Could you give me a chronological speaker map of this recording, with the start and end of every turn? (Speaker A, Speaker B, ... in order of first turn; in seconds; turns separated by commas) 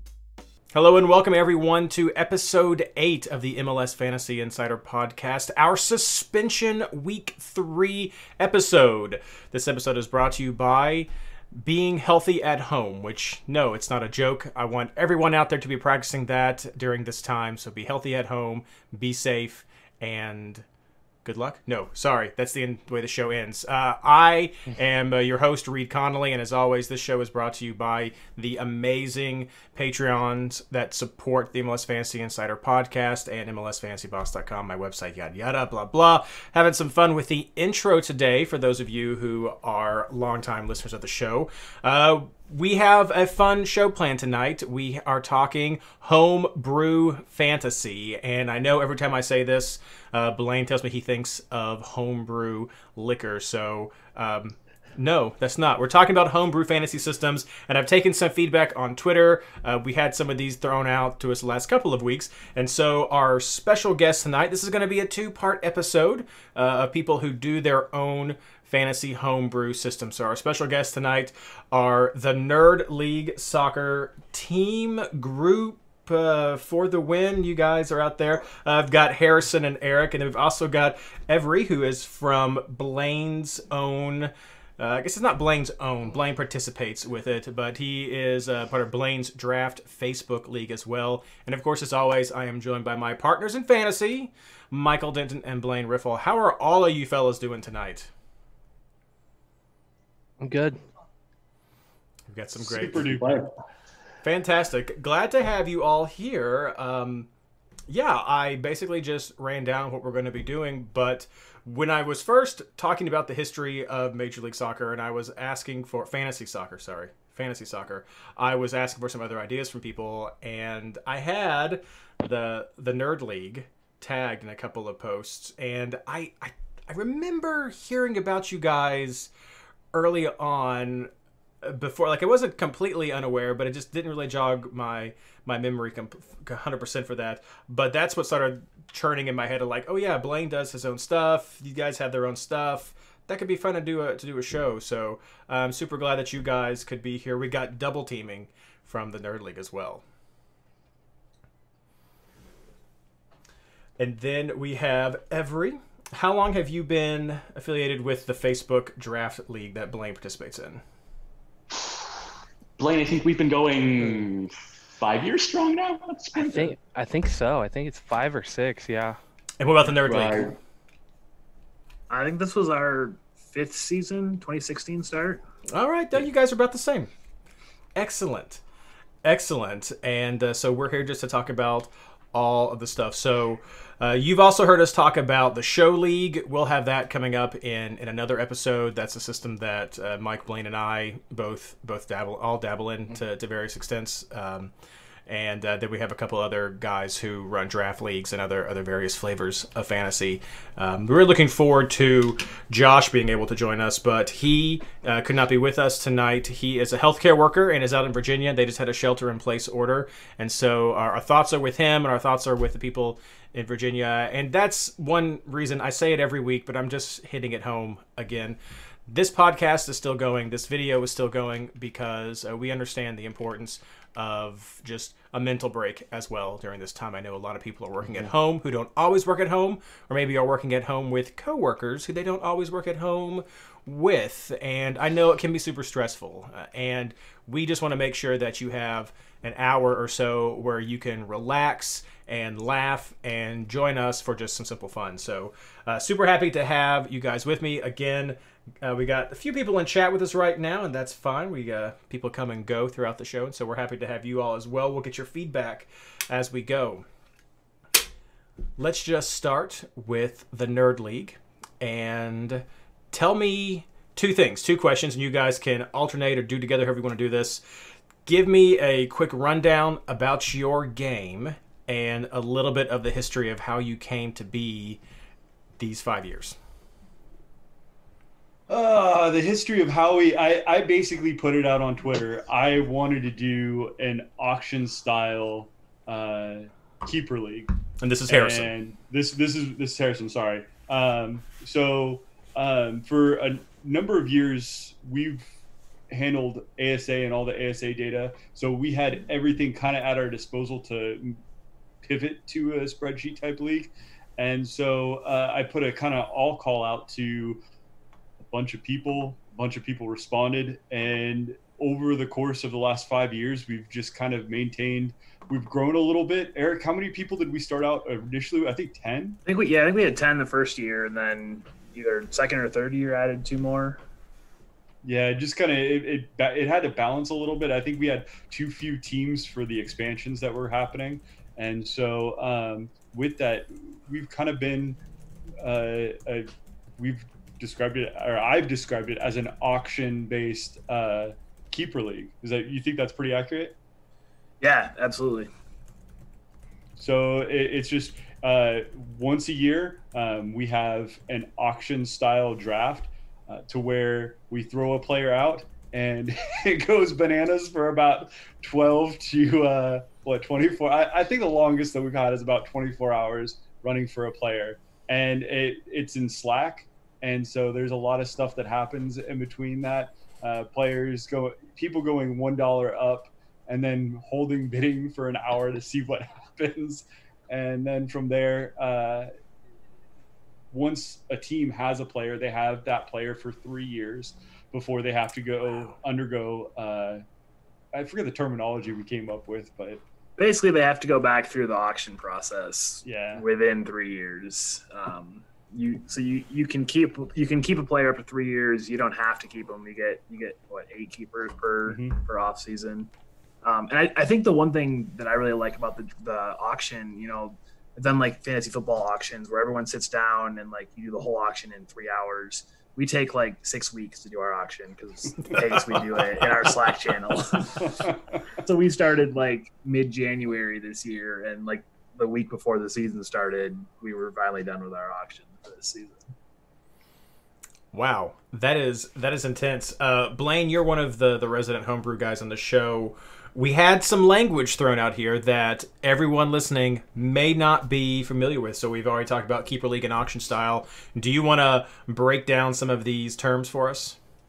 Speaker A: 0.7-20.6, Speaker A: 21.2-98.1, Speaker B: 100.4-100.8, Speaker A: 102.3-103.4, Speaker C: 102.6-103.4, Speaker D: 103.0-103.5, Speaker A: 104.2-107.3, Speaker A: 107.9-129.3, Speaker A: 129.9-131.1, Speaker A: 131.6-150.0, Speaker A: 154.0-160.8, Speaker D: 161.7-166.8, Speaker B: 166.4-169.2, Speaker A: 169.6-170.6, Speaker D: 169.8-170.6, Speaker E: 172.1-175.4, Speaker A: 175.7-177.1, Speaker A: 177.9-178.6, Speaker A: 179.2-194.7, Speaker A: 195.3-257.1, Speaker A: 258.8-267.6, Speaker A: 268.3-275.0, Speaker A: 275.8-276.6, Speaker C: 278.7-287.7, Speaker A: 288.0-288.7, Speaker C: 288.3-295.6, Speaker C: 296.1-301.4, Speaker C: 302.0-307.6, Speaker C: 308.4-319.4, Speaker E: 319.5-324.0, Speaker C: 325.0-335.0, Speaker C: 335.6-343.8, Speaker E: 344.6-345.5, Speaker C: 347.0-379.3, Speaker C: 380.7-387.2, Speaker C: 387.9-390.0, Speaker E: 390.4-403.1, Speaker C: 393.0-393.4, Speaker C: 401.9-402.2, Speaker E: 403.6-417.7, Speaker C: 417.8-418.2, Speaker E: 418.6-426.2, Speaker A: 427.9-444.2